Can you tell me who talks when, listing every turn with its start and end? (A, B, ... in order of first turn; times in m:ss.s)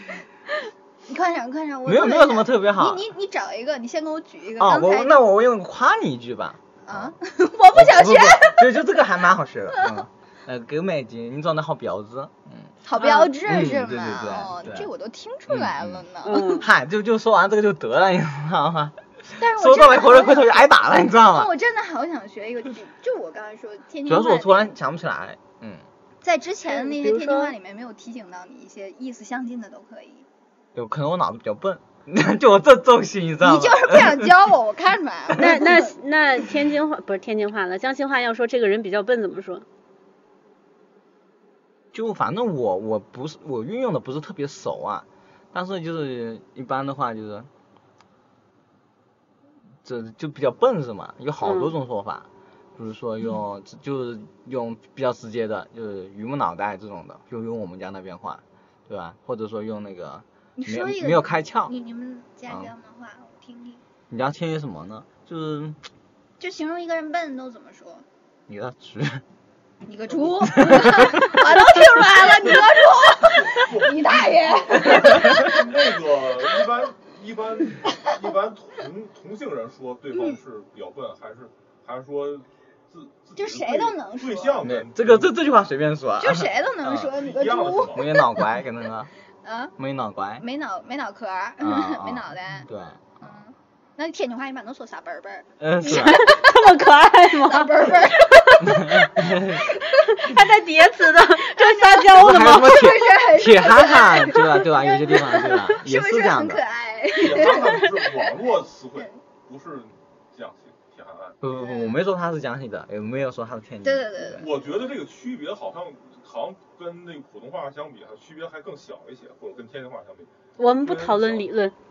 0:01.1-0:05.2 A
0:01.9-0:03.0 B
0:04.6-0:07.2 B
0:06.8-0:08.9 A
0:07.7-0:12.7 B
0:09.7-0:10.0 A
0:12.8-0:16.6 A
0:13.0-0:13.3 C
0:13.4-0:14.9 B
0:15.5-0:16.1 B
0:16.2-0:16.7 C
0:16.6-0:21.5 B
0:19.4-0:20.7 A
0:21.3-0:24.7 A
0:24.1-0:25.8 B
0:26.2-0:30.3 A
0:26.7-0:27.5 C
0:30.8-0:34.3 B
0:33.4-0:35.9 A
0:35.4-0:39.6 C
0:41.9-0:47.5 B
0:49.8-1:01.7 B
0:51.4-0:51.7 C
1:00.6-1:03.8 A
1:04.1-1:05.8 B
1:06.4-1:08.1 A
1:08.5-1:09.2 B
1:09.9-1:15.6 A
1:10.4-1:11.4 B
1:13.2-1:25.4 D
1:20.1-1:20.4 A
1:23.4-1:24.6 A
1:24.6-1:27.1 B
1:26.2-1:28.4 A
1:26.9-1:28.3 D
1:27.9-1:29.1 B
1:29.4-1:29.8 A
1:29.8-1:30.4 B
1:30.4-1:32.7 A
1:31.6-1:33.3 B
1:33.2-1:36.7 A
1:35.6-1:36.3 B
1:35.8-1:38.0 C
1:37.4-1:40.0 A
1:38.7-1:39.6 B
1:40.2-1:42.9 C
1:41.6-1:47.9 A
1:42.1-1:46.6 B
1:47.1-1:51.4 D
1:51.4-1:54.4 B
1:51.5-1:52.0 A
1:53.8-1:54.7 A
1:54.4-2:01.5 D
2:00.6-2:01.7 C